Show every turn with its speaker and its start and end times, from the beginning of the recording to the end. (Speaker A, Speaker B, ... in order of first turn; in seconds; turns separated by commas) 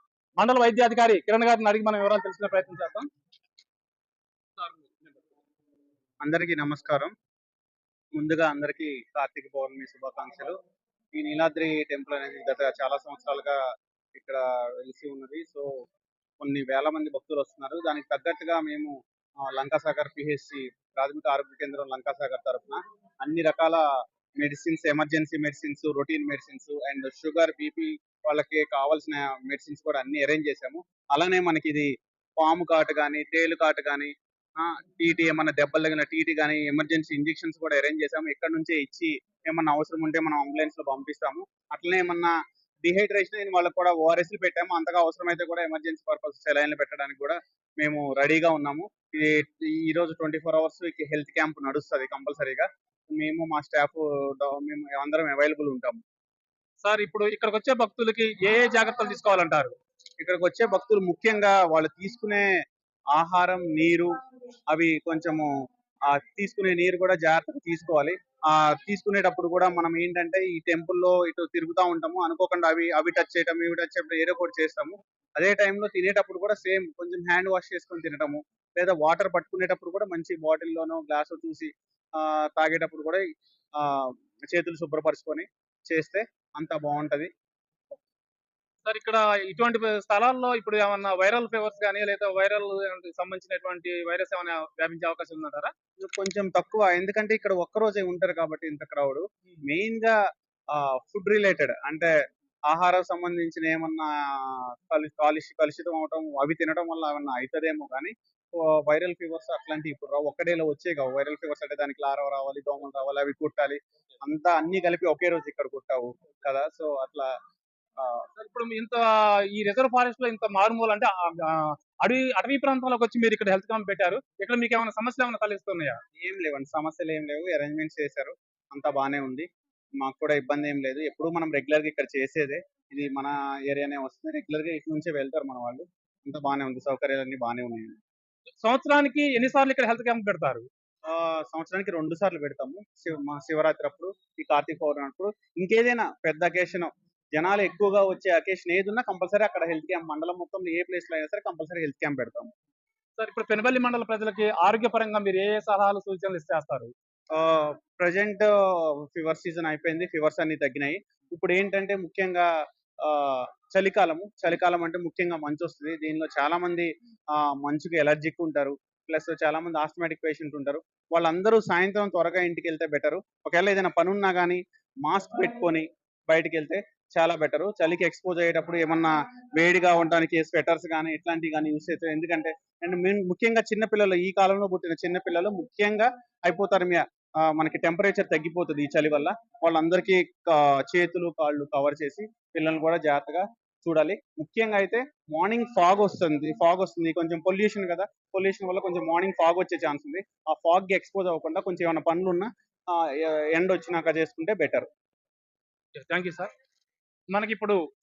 Speaker A: 0.4-3.1, Speaker A: 4.6-5.1, Speaker B: 6.2-7.1, Speaker B: 8.2-10.6, Speaker B: 11.2-13.6, Speaker B: 14.2-15.7, Speaker B: 16.4-18.9, Speaker B: 19.5-23.8, Speaker B: 24.4-56.0, Speaker A: 56.8-59.7, Speaker B: 60.2-62.5, Speaker B: 63.1-64.1, Speaker B: 64.7-65.5, Speaker B: 66.1-83.2, Speaker B: 83.8-87.3, Speaker A: 88.8-95.7, Speaker B: 96.0-100.2, Speaker B: 100.7-102.1, Speaker B: 102.7-117.3, Speaker B: 118.0-118.2, Speaker A: 118.4-126.0, Speaker B: 126.2-129.5, Speaker B: 130.0-138.0, Speaker A: 138.6-140.7, Speaker B: 141.1-152.5, Speaker A: 153.2-156.9, Speaker B: 157.3-162.5, Speaker B: 163.0-204.9, Speaker A: 206.0-206.5, Speaker A: 207.3-207.8